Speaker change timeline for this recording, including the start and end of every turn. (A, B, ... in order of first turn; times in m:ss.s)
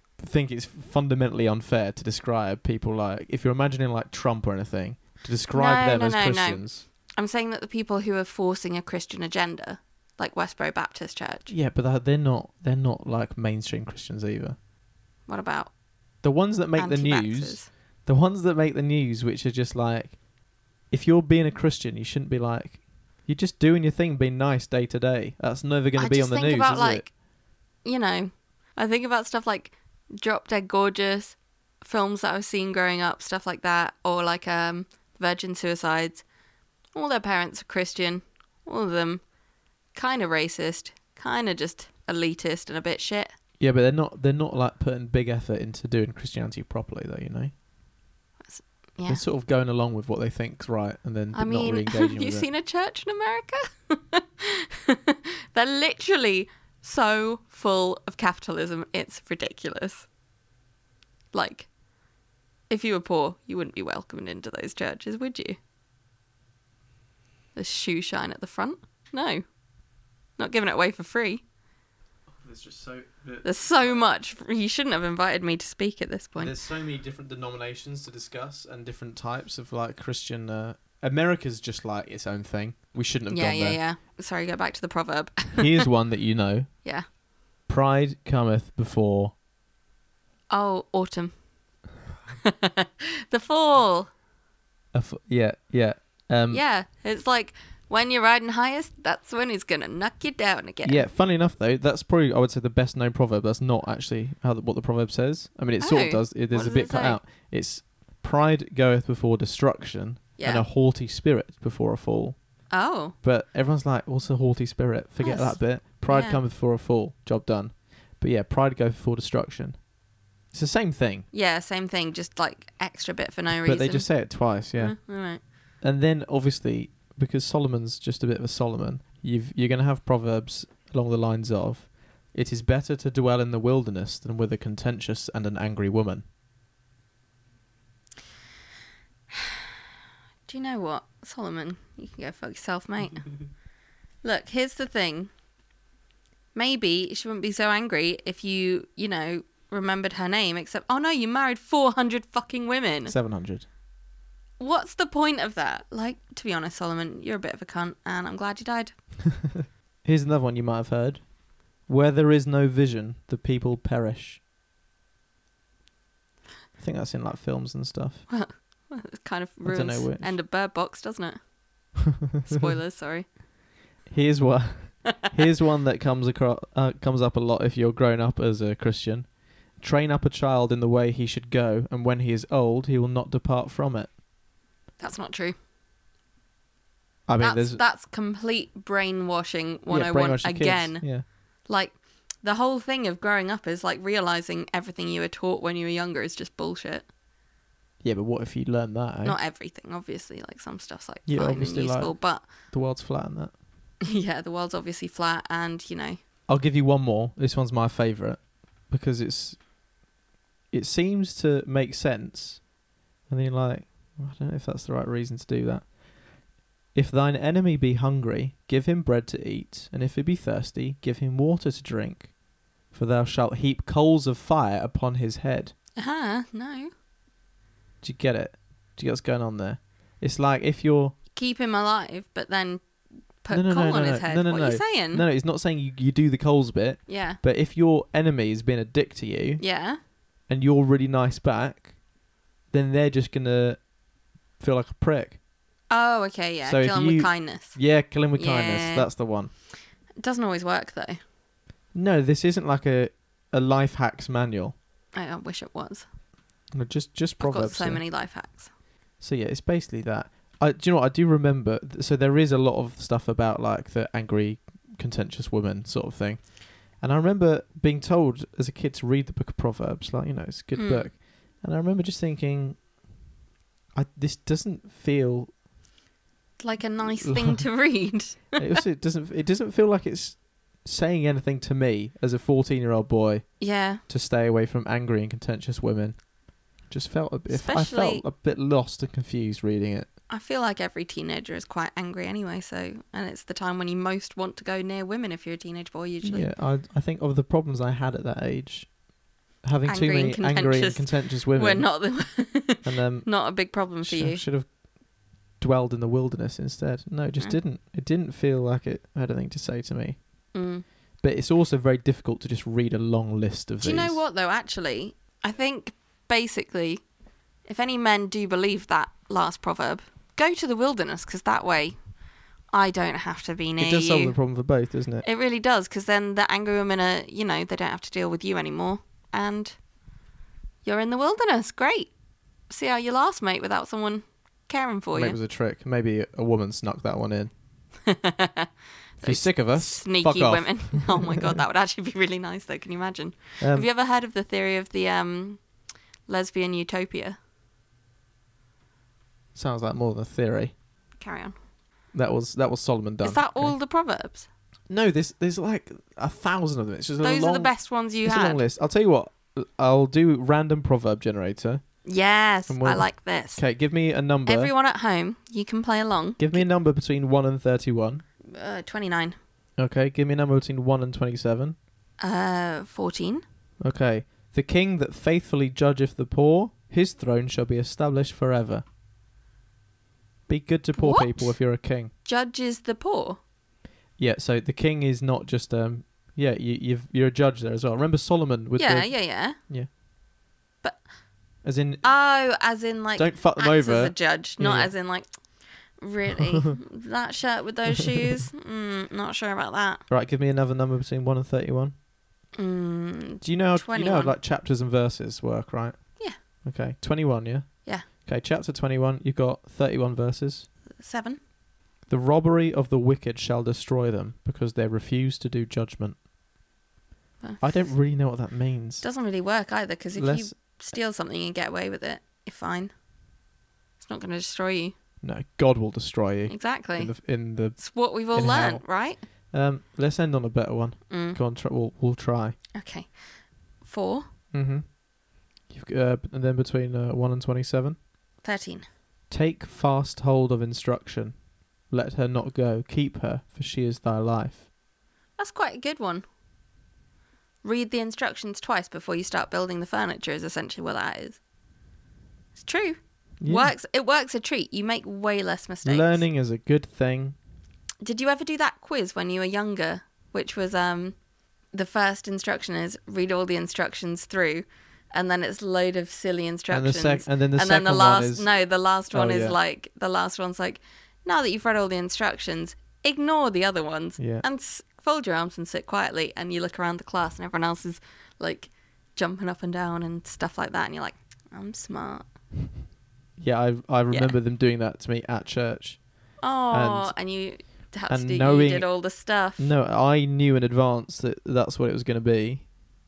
0:00.2-0:06.8 A
0:05.5-0:11.5 B
0:11.5-0:14.6 A
0:15.3-0:15.7 B
0:16.2-0:20.2 A
0:16.8-0:17.7 B
0:20.9-0:27.1 A
0:26.0-0:27.2 B
0:27.8-0:36.2 B
0:36.9-0:39.2 B
0:39.9-0:43.3 B
0:43.6-0:47.5 A
0:48.4-0:49.2 B
0:49.1-0:52.5 A
0:51.3-1:00.1 B
1:01.3-1:01.7 B
1:02.7-1:05.6 B
1:07.6-1:09.4 B
1:10.4-1:11.4 B
1:12.4-1:14.0 A
1:13.4-1:16.6 B
1:16.4-1:23.8 A
1:23.3-1:25.9 B
1:25.6-1:26.9 A
1:27.7-1:29.4 A
1:30.5-1:31.4 B
1:32.4-1:34.1 B
1:34.9-1:36.6 A
1:36.5-1:41.1 B
1:40.8-1:52.7 A
1:45.8-1:47.2 B
1:50.4-1:50.7 B
1:52.7-1:53.2 B
1:53.2-1:59.8 A
1:55.2-1:56.4 B
2:00.5-2:01.3 A
2:01.3-2:05.4 B
2:03.6-2:05.0 A
2:05.8-2:16.2 A
2:20.5-2:23.3 B
2:24.2-2:25.3 B
2:26.5-2:33.2 B
2:33.1-2:33.7 A
2:34.6-2:39.0 B
2:40.0-2:44.4 A
2:46.8-2:48.3 A
2:48.3-2:51.4 B
2:49.6-2:50.4 A
2:52.4-2:53.3 B
2:54.1-3:04.1 A
3:05.0-3:05.6 B
3:07.3-3:07.8 A
3:07.4-3:17.1 B
3:09.9-3:11.2 A
3:18.0-3:19.4 A
3:19.2-3:22.5 B
3:21.3-3:23.5 A
3:24.1-3:26.2 B
3:26.5-3:29.6 A
3:30.7-3:32.7 A
3:33.3-3:36.0 A
3:36.9-3:42.3 A
3:42.9-3:45.8 A
3:46.0-3:46.9 B
3:48.0-3:51.2 A
3:51.3-3:55.2 B
3:53.5-3:59.7 A
3:57.1-3:57.4 B
3:59.6-4:00.0 B
4:00.5-4:01.9 A
4:02.7-4:03.9 A
4:04.6-4:05.4 A
4:05.9-4:09.1 B
4:06.6-4:09.5 A
4:10.2-4:11.2 B
4:11.9-4:14.8 A
4:15.1-4:16.1 B
4:16.7-4:18.1 A
4:17.4-4:18.7 B
4:19.2-4:32.8 A
4:30.7-4:31.1 B
4:34.0-4:35.5 A
4:36.6-4:38.8 B
4:37.0-4:37.7 A
4:38.6-4:46.3 A
4:43.6-4:44.0 B
4:46.8-4:50.1 A
4:47.5-4:48.2 B
4:50.3-4:56.5 B
4:56.2-4:59.0 A
4:59.6-5:02.2 A
4:59.8-5:04.4 B
5:02.8-5:04.8 A
5:05.6-5:10.2 A
5:10.5-5:10.9 B
5:11.2-5:14.2 A
5:13.8-5:17.0 B
5:17.6-5:22.1 B
5:22.7-5:24.4 B
5:23.8-5:25.2 A
5:25.2-5:29.8 B
5:30.8-5:32.1 B
5:32.7-5:35.4 B
5:35.1-5:37.5 A
5:38.1-5:45.7 B
5:39.2-5:41.4 A
5:43.6-5:43.9 A
5:46.3-5:47.4 B
5:49.6-5:50.7 A
5:51.2-5:51.6 B
5:52.1-5:53.8 A
5:53.2-5:54.5 B
5:54.9-6:01.8 A
5:57.2-5:58.6 B
6:02.0-6:03.6 B
6:02.7-6:04.7 A
6:04.4-6:06.7 B
6:06.4-6:08.2 A
6:08.5-6:09.4 B
6:09.8-6:11.8 A
6:12.2-6:13.4 B
6:13.8-6:18.8 A
6:20.5-6:22.1 A
6:21.0-6:21.6 B
6:22.2-6:23.4 B
6:24.2-6:29.9 A
6:28.8-6:29.6 B
6:30.8-6:31.1 B
6:31.6-6:32.2 A
6:32.0-6:40.0 B
6:33.2-6:35.0 A
6:40.1-6:41.9 A
6:42.6-6:44.4 B
6:43.4-6:50.7 A
6:51.0-6:51.4 B
6:52.1-6:56.2 A
6:57.4-6:57.9 B
6:57.6-6:59.1 A
6:59.0-7:02.9 B
7:00.2-7:00.6 A
7:04.0-7:05.0 B
7:05.2-7:12.6 A
7:06.5-7:09.3 B
7:11.1-7:11.4 B
7:12.8-7:13.2 B
7:13.8-7:14.3 B
7:14.5-7:15.0 A
7:15.7-7:18.0 A
7:18.4-7:18.9 B
7:19.3-7:21.4 A
7:21.9-7:24.7 A
7:25.4-7:26.3 B
7:27.6-7:31.4 B
7:32.6-7:36.3 B
7:33.4-7:33.7 A
7:35.8-7:37.4 A
7:38.0-7:41.2 B
7:41.7-8:02.4 B
7:46.7-7:48.5 A
7:49.1-7:49.6 A
7:54.2-7:54.4 A
8:03.4-8:07.4 A
8:04.1-8:04.4 B
8:06.4-8:09.7 B
8:08.1-8:12.7 A